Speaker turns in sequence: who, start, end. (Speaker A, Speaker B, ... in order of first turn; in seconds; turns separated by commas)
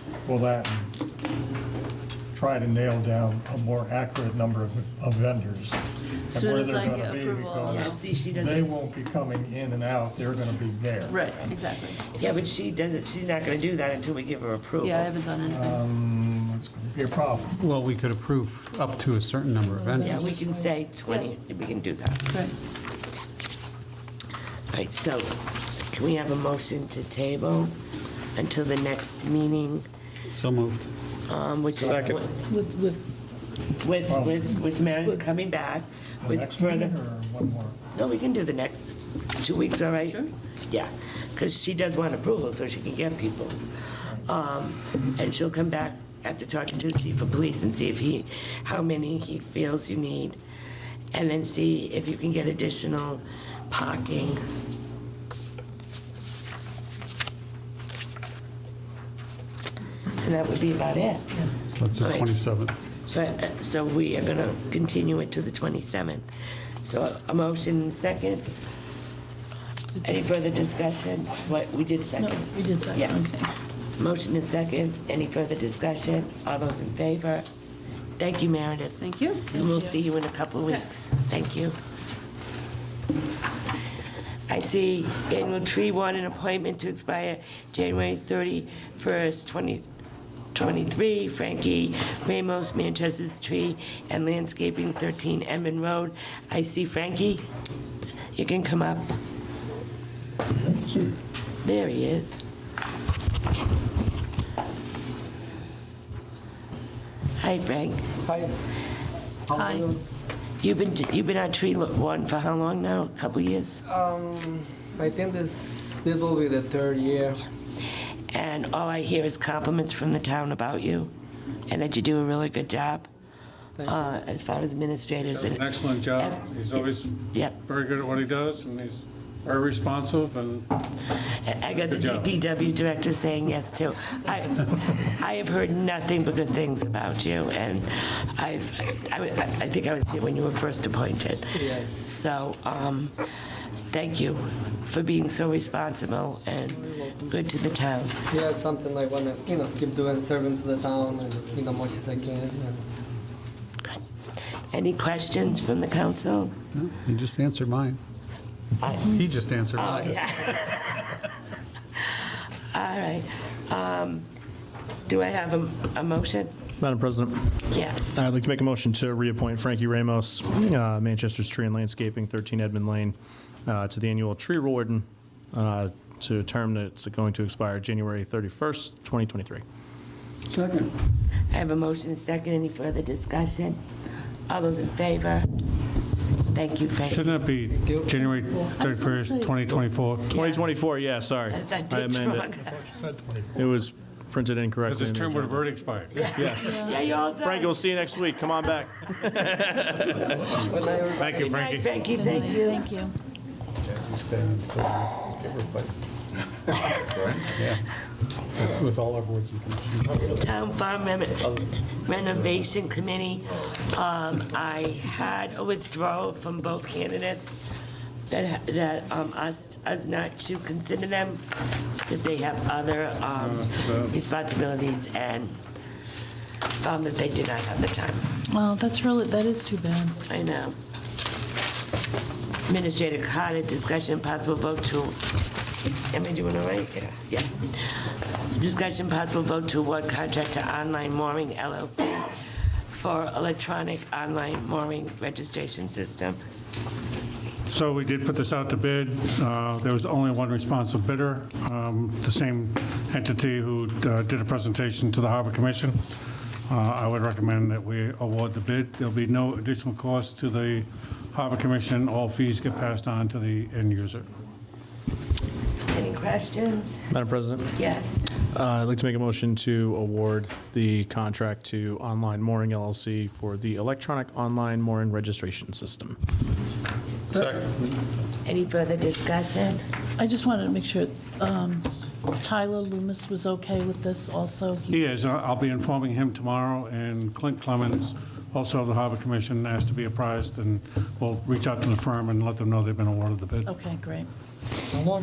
Speaker A: 0.2-0.9, Speaker A: 2.3-5.8, Speaker B: 6.3-8.0, Speaker A: 6.3-11.2, Speaker C: 7.7-8.7, Speaker B: 11.1-12.0, Speaker C: 12.0-15.1, Speaker B: 14.9-15.7, Speaker A: 15.4-17.6, Speaker D: 17.6-20.3, Speaker B: 19.8-20.4, Speaker C: 20.0-22.3, Speaker C: 24.7-27.7, Speaker C: 28.3-29.9, Speaker D: 30.3-30.9, Speaker C: 31.3-32.3, Speaker A: 31.8-32.2, Speaker D: 31.8-32.1, Speaker B: 32.5-33.1, Speaker C: 33.8-36.9, Speaker A: 34.1-34.5, Speaker A: 36.2-37.8, Speaker C: 37.9-43.6, Speaker A: 44.0-44.3, Speaker C: 44.2-50.4, Speaker C: 51.1-54.4, Speaker C: 60.1-61.3, Speaker D: 61.8-62.7, Speaker C: 62.0-62.4, Speaker C: 63.0-66.3, Speaker C: 66.8-68.5, Speaker C: 70.0-73.2, Speaker B: 72.2-73.5, Speaker C: 74.0-77.5, Speaker C: 78.2-81.8, Speaker B: 79.5-79.9, Speaker C: 84.5-89.8, Speaker C: 90.5-97.5, Speaker C: 98.3-99.2, Speaker C: 101.6-102.3, Speaker C: 107.4-108.0, Speaker E: 108.2-108.5, Speaker B: 109.5-109.9, Speaker C: 110.6-113.8, Speaker E: 113.9-117.4, Speaker C: 118.3-121.1, Speaker C: 121.7-123.1, Speaker C: 123.8-127.5, Speaker F: 125.3-130.7, Speaker C: 131.4-143.1, Speaker F: 131.9-132.3, Speaker E: 141.5-141.9, Speaker C: 143.9-148.2, Speaker E: 148.3-152.8, Speaker C: 154.7-156.5, Speaker D: 156.7-158.0, Speaker C: 158.8-159.2, Speaker D: 159.1-160.3, Speaker C: 159.8-161.1, Speaker C: 162.7-164.2, Speaker C: 165.1-166.5, Speaker G: 166.8-167.6, Speaker C: 167.7-168.2, Speaker G: 168.1-179.6, Speaker D: 180.5-180.9, Speaker C: 181.5-183.8, Speaker C: 184.5-185.5, Speaker C: 186.5-187.3, Speaker F: 187.0-190.3, Speaker B: 188.1-189.6, Speaker G: 190.3-192.5, Speaker C: 190.3-190.7, Speaker C: 191.5-192.7, Speaker A: 192.5-193.7, Speaker G: 193.6-195.7, Speaker F: 194.8-196.3, Speaker C: 196.1-197.8, Speaker G: 196.2-196.8, Speaker B: 196.6-197.0, Speaker G: 197.4-200.6, Speaker D: 200.1-201.0, Speaker F: 200.6-202.2, Speaker E: 200.8-201.1, Speaker C: 201.2-202.9, Speaker B: 202.1-203.1, Speaker D: 203.8-206.0, Speaker D: 207.3-207.8, Speaker D: 208.6-210.4, Speaker C: 210.2-217.6, Speaker C: 218.3-221.4, Speaker C: 222.0-225.6, Speaker F: 223.4-224.1, Speaker C: 226.8-228.2, Speaker B: 228.5-230.2, Speaker C: 230.3-230.8, Speaker C: 232.6-235.3, Speaker C: 236.1-237.9, Speaker C: 238.5-242.3, Speaker C: 242.9-246.4, Speaker F: 247.7-256.0, Speaker F: 256.7-264.3, Speaker C: 265.9-267.0, Speaker G: 267.1-267.7, Speaker C: 267.7-268.2, Speaker G: 268.5-276.2, Speaker D: 277.4-277.7, Speaker C: 278.4-279.8, Speaker B: 280.2-281.9, Speaker B: 282.4-285.0, Speaker F: 284.9-293.7, Speaker B: 293.6-294.3